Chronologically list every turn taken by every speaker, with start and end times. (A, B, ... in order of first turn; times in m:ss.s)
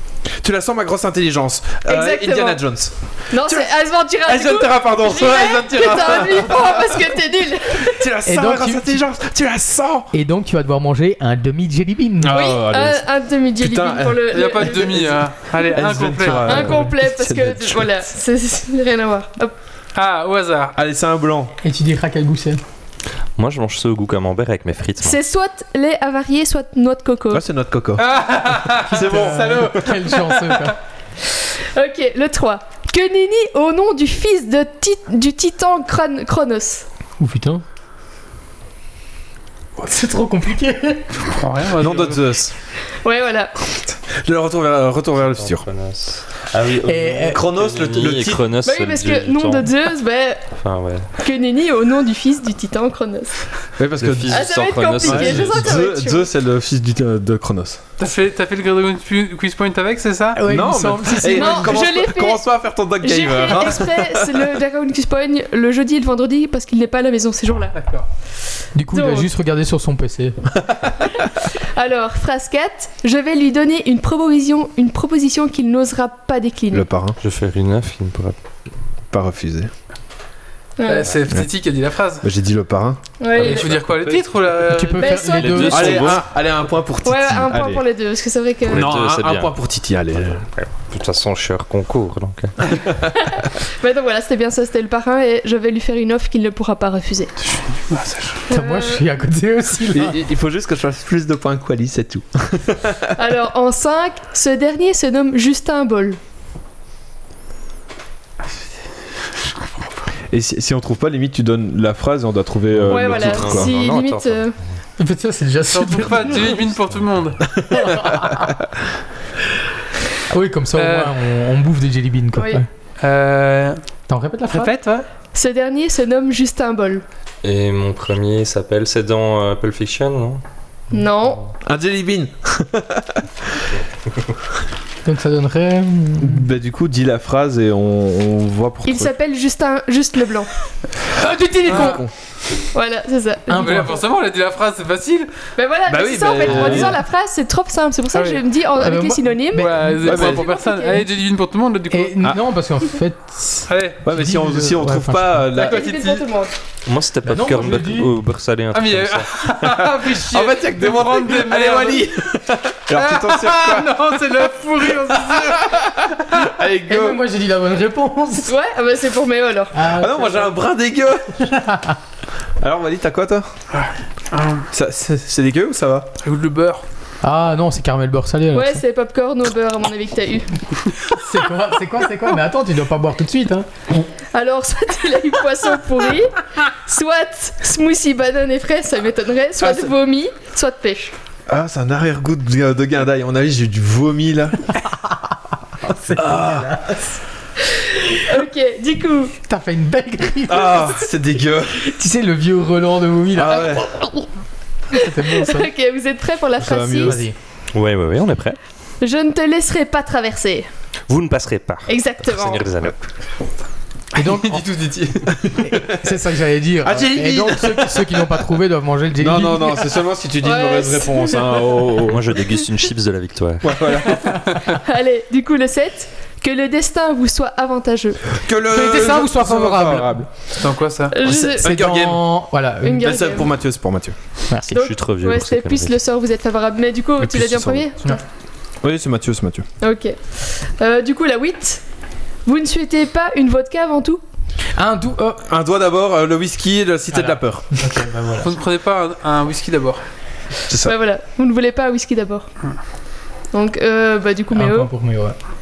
0:00.4-0:03.7 A
0:01.9-0:02.6 B
0:03.3-0:08.1 B
0:04.2-0:07.0 A
0:07.8-0:10.1 A
0:08.2-0:09.0 C
0:10.1-0:12.5 C
0:12.2-0:13.0 A
0:12.3-0:15.2 B
0:13.6-0:15.2 A
0:14.3-0:16.9 D
0:15.7-0:17.9 A
0:16.3-0:19.5 B
0:20.0-0:20.8 D
0:20.8-0:21.5 A
0:21.6-0:22.6 C
0:23.4-0:25.2 E
0:25.0-0:27.4 B
0:27.3-0:28.2 A
0:28.0-0:30.7 D
0:28.7-0:29.8 A
0:28.9-0:30.8 C
0:31.8-0:36.8 B
0:37.2-0:37.6 C
0:39.8-0:41.1 C
0:41.2-0:42.2 D
0:41.8-0:42.5 A
0:43.0-0:43.6 B
0:44.1-0:45.7 A
0:45.2-0:49.8 E
0:46.8-0:47.4 C
0:47.3-0:48.4 A
0:48.6-0:50.4 B
0:50.6-0:51.1 E
0:51.2-0:53.4 B
0:53.8-0:54.4 A
0:54.0-0:55.8 E
0:54.3-0:56.3 B
0:55.0-0:57.8 A
0:58.0-1:00.4 D
1:00.4-1:01.8 C
1:00.5-1:04.6 A
1:01.3-1:02.4 B
1:03.0-1:07.8 B
1:07.7-1:08.1 D
1:08.8-1:10.4 C
1:08.9-1:09.3 B
1:11.8-1:16.9 B
1:16.7-1:17.2 A
1:17.2-1:18.4 E
1:19.1-1:19.7 A
1:20.8-1:21.1 B
1:20.8-1:22.3 D
1:22.2-1:23.2 A
1:23.2-1:23.7 B
1:23.4-1:25.1 D
1:24.6-1:26.0 C
1:25.0-1:26.1 B
1:25.2-1:26.3 E
1:25.7-1:27.8 A
1:27.0-1:28.9 B
1:28.6-1:29.5 E
1:28.7-1:30.4 A
1:30.5-1:32.7 E
1:33.2-1:37.3 B
1:37.4-1:38.5 D
1:38.5-1:39.1 B
1:38.5-1:40.2 C
1:39.9-1:43.1 A
1:43.2-1:46.2 B
1:49.4-1:50.1 D
1:50.3-1:53.7 A
1:52.7-1:54.6 E
1:52.9-1:54.6 B
1:55.0-1:56.6 C
1:55.7-1:57.4 D
1:57.7-1:58.6 C
2:00.3-2:02.7 C
2:00.8-2:01.2 D
2:02.4-2:02.6 B
2:03.0-2:03.8 D
2:04.1-2:04.7 C
2:04.5-2:05.1 D
2:05.3-2:07.0 B
2:07.4-2:10.4 E
2:10.9-2:11.5 B
2:11.6-2:13.6 A
2:15.0-2:16.4 C
2:16.2-2:19.1 A
2:18.8-2:20.5 B
2:21.2-2:22.0 C
2:21.6-2:22.1 A
2:21.7-2:22.0 D
2:22.7-2:23.9 B
2:23.5-2:24.0 C
2:23.5-2:25.3 D
2:25.6-2:31.1 B
2:25.9-2:27.0 A
2:28.1-2:28.4 D
2:28.8-2:30.3 C
2:29.5-2:32.2 D
2:30.1-2:30.4 A
2:31.9-2:35.5 C
2:33.7-2:34.0 D
2:34.0-2:36.2 A
2:35.5-2:36.5 B
2:35.6-2:36.2 D
2:36.9-2:39.3 E
2:37.3-2:38.1 C
2:38.7-2:42.1 D
2:39.8-2:47.2 A
2:42.9-2:46.4 D
2:46.9-2:48.5 C
2:48.4-2:49.9 B
2:49.7-2:50.5 C
2:50.0-2:51.4 A
2:51.4-2:52.0 C
2:52.6-2:53.5 A
2:53.7-2:54.7 D
2:54.7-2:56.1 A
2:56.2-2:56.8 D
2:57.2-2:58.8 C
2:58.5-3:00.5 B
3:01.1-3:03.7 C
3:04.3-3:11.1 B
3:11.5-3:14.7 A
3:14.9-3:15.2 C
3:15.8-3:17.2 C
3:16.1-3:16.8 A
3:17.7-3:19.3 B
3:19.4-3:21.0 C
3:20.5-3:21.8 A
3:21.8-3:23.9 C
3:23.4-3:23.9 A
3:24.9-3:25.7 C
3:24.9-3:27.2 B
3:26.6-3:27.2 A
3:27.0-3:27.3 C
3:27.7-3:28.6 E
3:29.0-3:30.7 B
3:31.1-3:33.0 E
3:31.9-3:32.6 B
3:34.2-3:34.6 C
3:34.2-3:35.4 D
3:35.3-3:36.0 A
3:35.6-3:40.0 C
3:36.8-3:38.4 A
3:39.2-3:42.2 A
3:40.4-3:42.0 B
3:42.1-3:44.0 E
3:43.6-3:44.4 A
3:44.7-3:48.4 B
3:48.4-3:50.3 A
3:48.7-3:50.3 C
3:50.6-3:51.2 D
3:51.1-3:51.7 B
3:51.2-3:52.4 A
3:51.4-3:53.1 C
3:52.8-3:53.5 B
3:53.0-3:54.2 A
3:54.5-3:54.8 C
3:54.7-3:58.2 B
3:54.7-3:56.0 E
3:57.2-3:57.9 A
3:58.8-3:59.7 A
3:59.8-4:01.8 B
4:02.5-4:04.2 B
4:04.8-4:05.4 C
4:05.5-4:07.8 A
4:07.2-4:08.5 C
4:08.4-4:10.0 D
4:10.7-4:11.0 A
4:10.8-4:12.5 B
4:13.5-4:14.9 B
4:14.5-4:15.4 C